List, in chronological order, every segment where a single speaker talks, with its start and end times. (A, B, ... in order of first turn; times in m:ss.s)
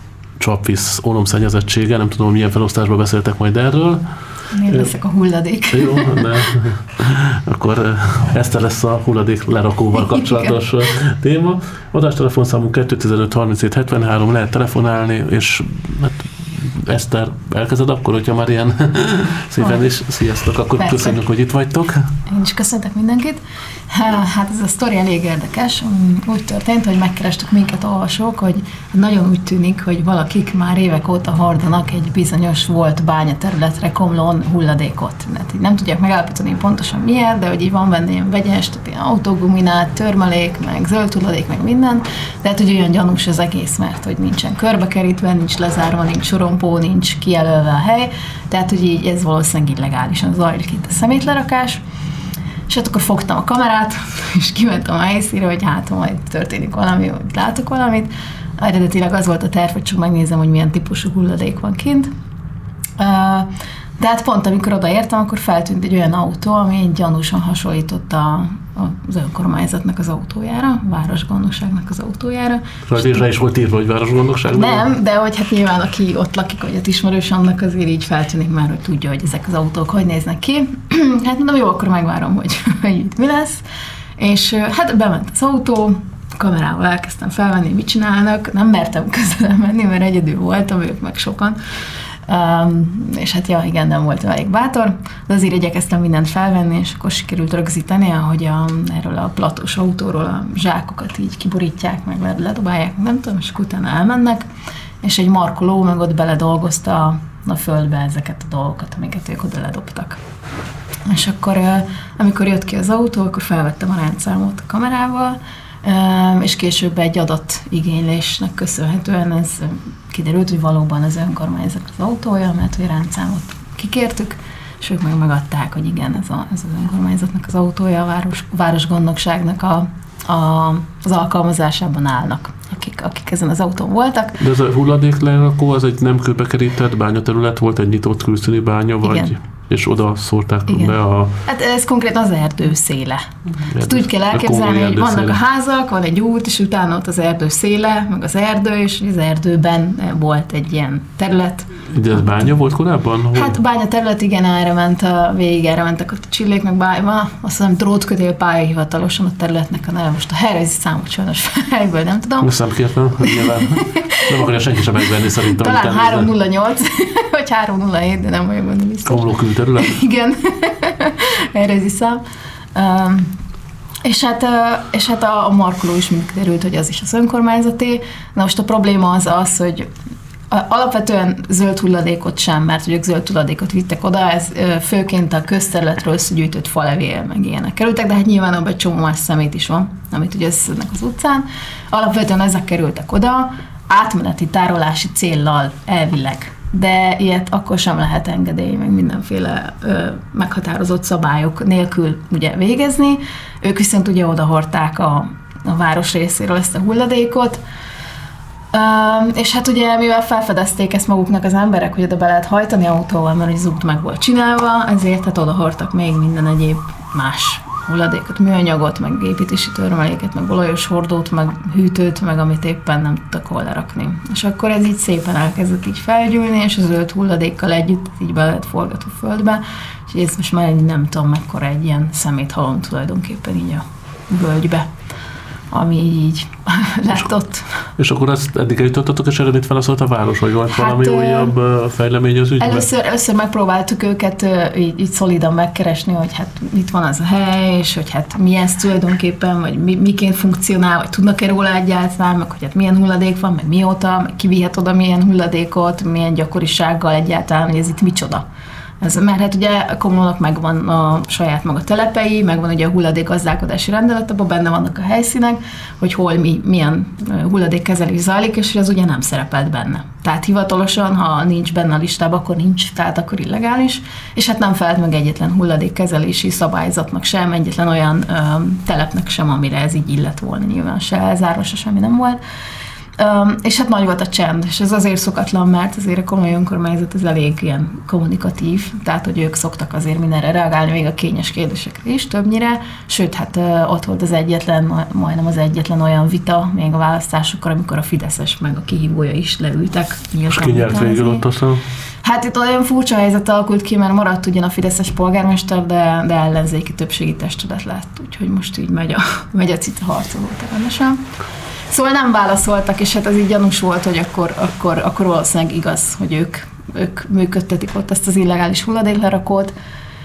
0:00.4-0:05.0 A
0:04.5-0:06.4 B
0:05.7-0:22.1 A
0:10.0-0:10.6 B
0:19.6-0:19.9 B
0:20.8-0:21.2 B
0:22.3-0:51.8 B
0:52.7-1:02.1 B
1:03.0-1:13.2 B
1:12.9-1:14.8 A
1:14.5-1:23.6 B
1:24.2-1:31.6 B
1:32.3-1:44.4 B
1:45.0-1:50.2 B
1:51.0-2:14.4 B
2:14.4-2:21.4 A
2:19.0-2:19.3 B
2:20.7-2:32.5 B
2:23.7-2:25.4 A
2:31.9-2:33.6 A
2:33.3-2:42.6 B
2:42.4-2:46.3 A
2:43.3-2:44.2 B
2:45.5-2:52.2 B
2:49.0-2:50.0 A
2:52.7-2:53.4 B
2:54.0-2:59.9 B
3:00.5-3:27.6 B
3:28.7-3:54.9 B
3:55.7-3:57.9 B
3:58.0-4:02.9 A
4:00.7-4:01.5 B
4:02.6-4:18.4 B
4:19.0-4:42.4 B
4:43.2-5:01.4 B
5:00.5-5:01.8 A
5:02.2-5:11.2 B
5:11.9-5:19.7 B